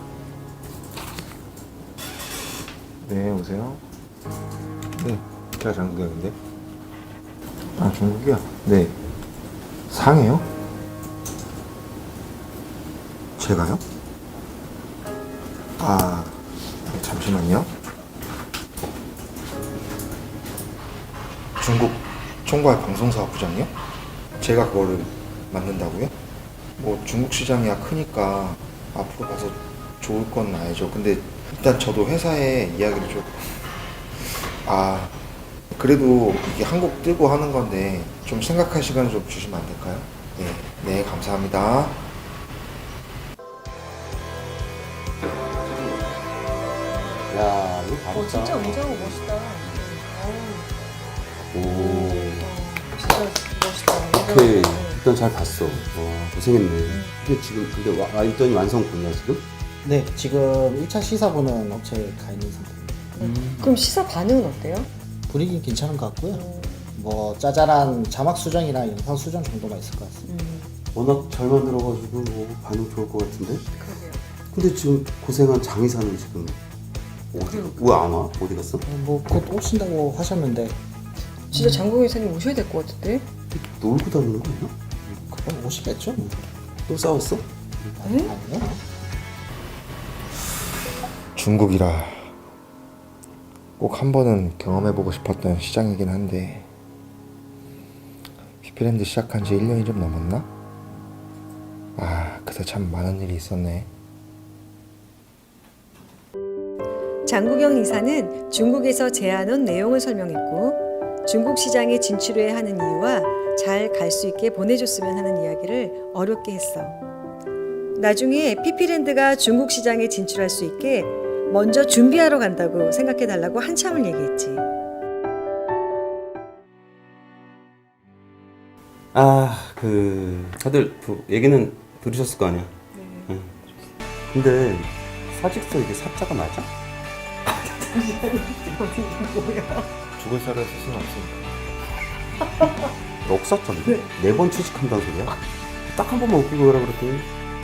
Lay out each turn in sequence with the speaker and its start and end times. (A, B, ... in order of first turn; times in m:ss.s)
0:03.0-0:03.8 A
0:05.0-0:06.4 A
0:07.8-0:09.0 A
0:09.9-0:10.4 A
0:13.4-0:13.8 A
0:15.8-0:17.7 A
0:21.6-0:23.7 A
0:24.4-0:26.1 A
0:26.8-0:33.5 A
0:34.6-0:35.2 A
0:35.7-0:42.0 A
0:45.5-0:46.2 B
0:47.1-0:50.0 B
0:48.1-0:50.7 C
0:51.5-0:52.6 B
0:51.7-0:55.0 C
0:54.1-0:59.5 B
0:59.8-1:03.7 D
1:05.3-1:10.3 D
1:06.3-1:06.9 C
1:10.3-1:10.7 C
1:10.9-1:13.6 B
1:13.8-1:14.2 C
1:14.5-1:16.6 B
1:17.3-1:18.8 B
1:18.9-1:20.8 D
1:21.5-1:23.2 C
1:23.5-1:25.2 B
1:25.3-1:26.3 D
1:26.9-1:28.0 B
1:28.0-1:28.3 C
1:28.0-1:28.8 D
1:31.4-1:32.3 A
1:33.8-1:36.7 A
1:38.6-1:40.5 A
1:42.0-1:43.9 A
1:47.2-1:57.0 E
1:57.9-2:04.6 E
2:09.1-2:13.6 B
2:12.9-2:13.3 C
2:14.3-2:16.7 B
2:17.8-2:19.8 C
2:20.2-2:21.5 A
2:23.2-2:25.4 B
2:25.9-2:27.3 B